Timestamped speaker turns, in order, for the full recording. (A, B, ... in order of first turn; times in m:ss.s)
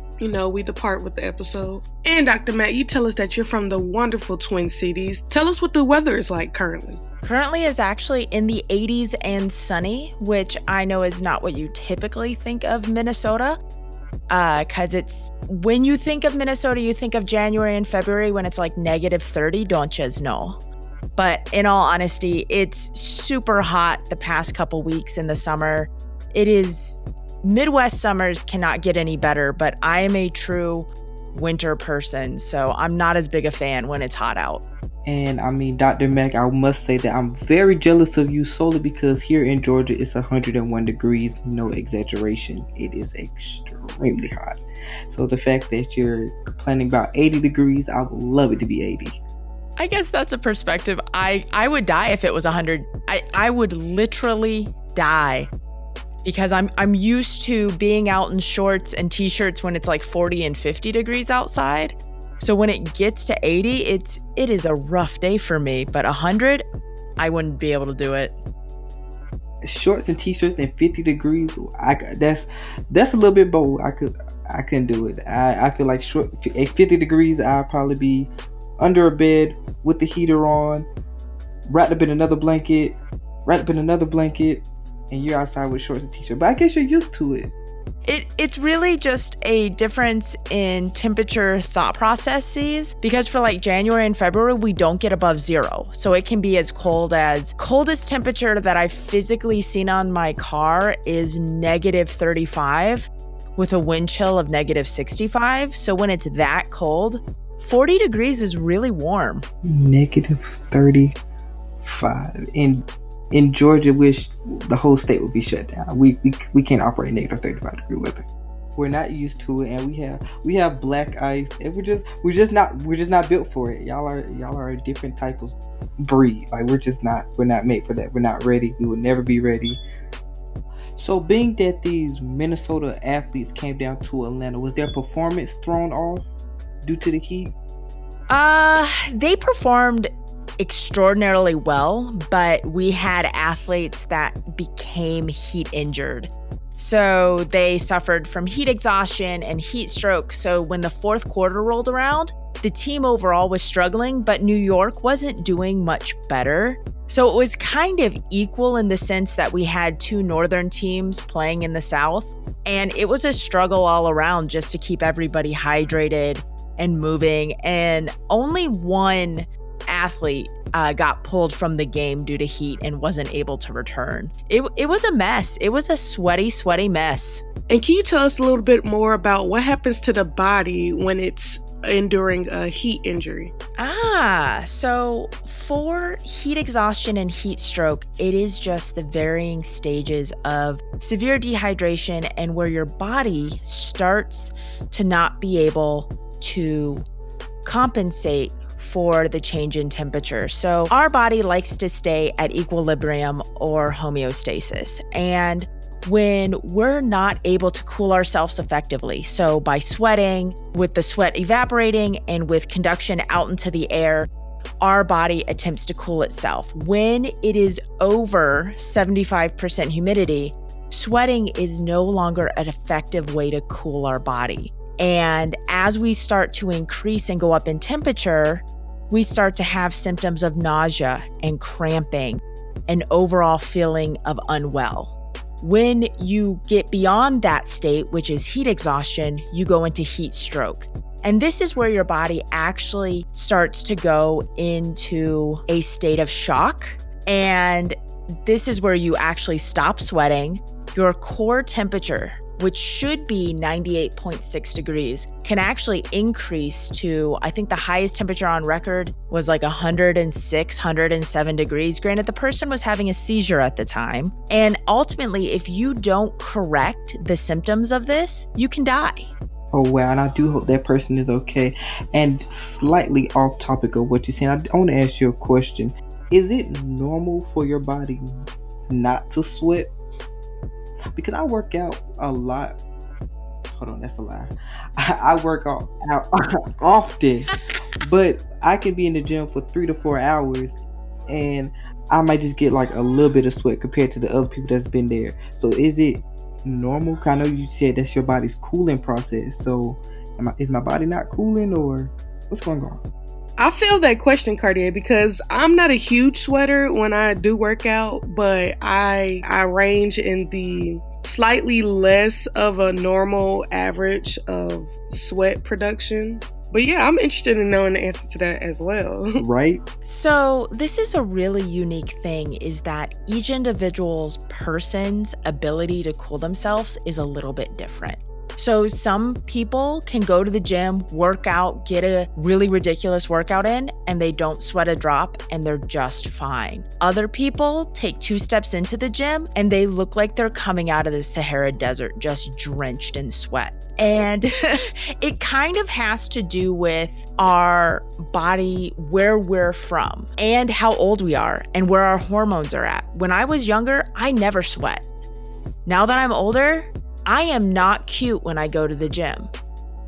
0:00.2-0:07.0 A
0:07.2-0:13.6 B
0:14.3-0:20.6 B
0:21.2-0:34.6 B
0:35.0-0:49.2 C
0:49.8-0:55.5 B
0:56.2-1:06.6 B
1:07.2-1:08.4 B
1:09.6-1:20.9 C
1:21.7-1:27.5 C
1:28.0-1:49.4 B
1:49.6-1:51.2 C
1:51.8-2:09.8 C
2:11.0-2:16.2 C
2:16.8-2:17.5 C
2:18.3-2:57.4 B
2:57.7-3:03.5 A
3:03.8-3:17.0 B
3:17.6-3:34.3 B
3:34.8-4:29.3 B
4:29.7-4:38.3 C
4:38.9-4:39.9 C
4:41.1-4:42.8 C
4:43.7-4:50.8 C
4:51.3-5:03.0 C
5:03.6-5:19.4 A
5:19.4-5:19.8 C
5:20.0-5:55.0 B
5:55.8-5:59.5 B